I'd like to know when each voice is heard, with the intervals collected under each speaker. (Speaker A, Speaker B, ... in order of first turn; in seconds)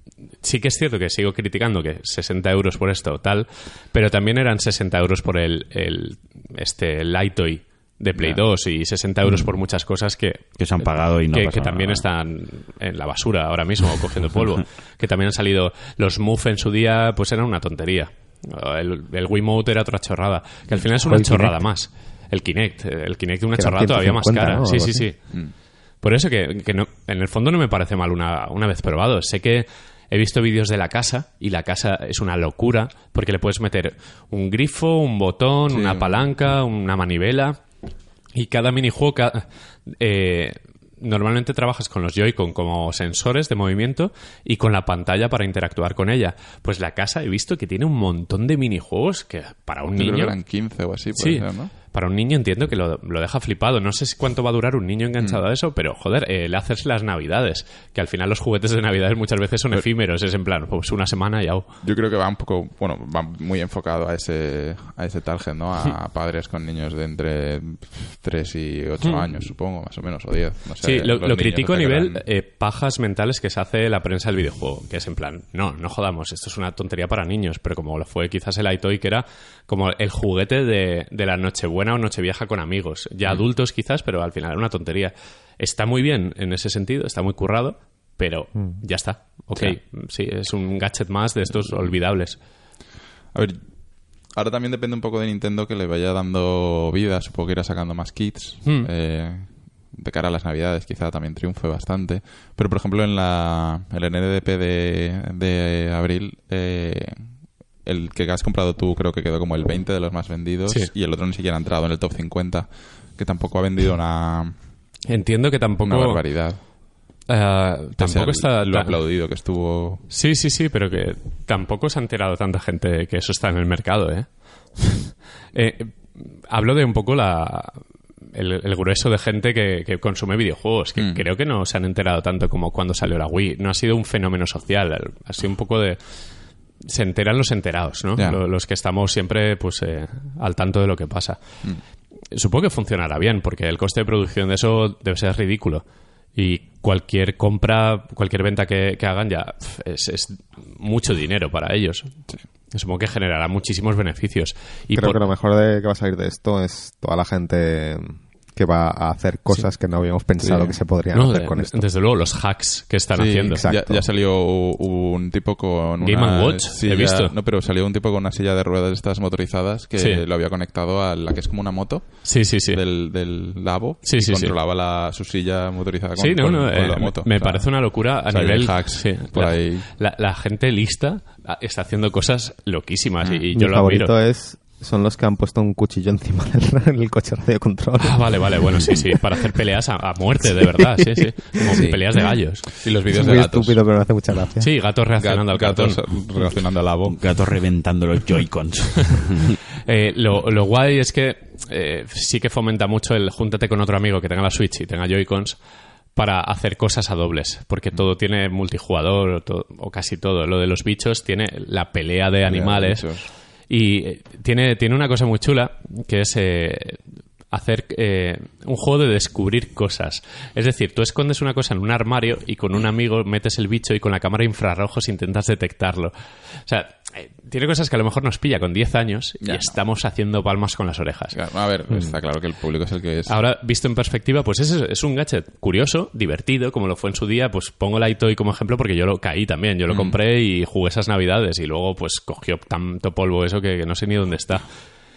Speaker A: 0.4-10.4, 11.3-25.2, 26.0-37.6, 38.3-39.5, 40.0-50.4, 51.1-61.7, 70.8-92.4, 115.1-116.2, 117.3-119.0, 120.1-136.0, 136.8-141.4, 142.3-145.8, 146.3-152.1, 152.7-155.2, 161.1-163.6, 166.0-167.3, 170.0-170.2, 172.2-172.8, 174.1-174.5, 176.2-184.1, 188.0-192.7, 194.6-196.0, 199.8-205.6, 206.2-213.1, 213.7-217.0, 217.5-231.4, 233.3-244.7
Speaker B: 10.6-12.1, 197.1-199.6
Speaker C: 21.1-21.6, 23.6-25.1, 154.9-161.9, 163.4-164.1, 183.5-189.0, 190.8-191.9, 193.1-194.7
Speaker D: 35.7-36.2, 50.0-51.7, 61.8-72.2, 93.3-93.6, 94.3-107.2, 107.8-114.6, 115.8-116.6, 118.0-120.0, 131.0-131.2, 160.4-160.7, 163.2-179.9, 191.7-192.0, 192.8-193.8, 195.2-197.2, 212.4-213.3, 229.4-229.8, 231.3-233.4, 239.9-240.2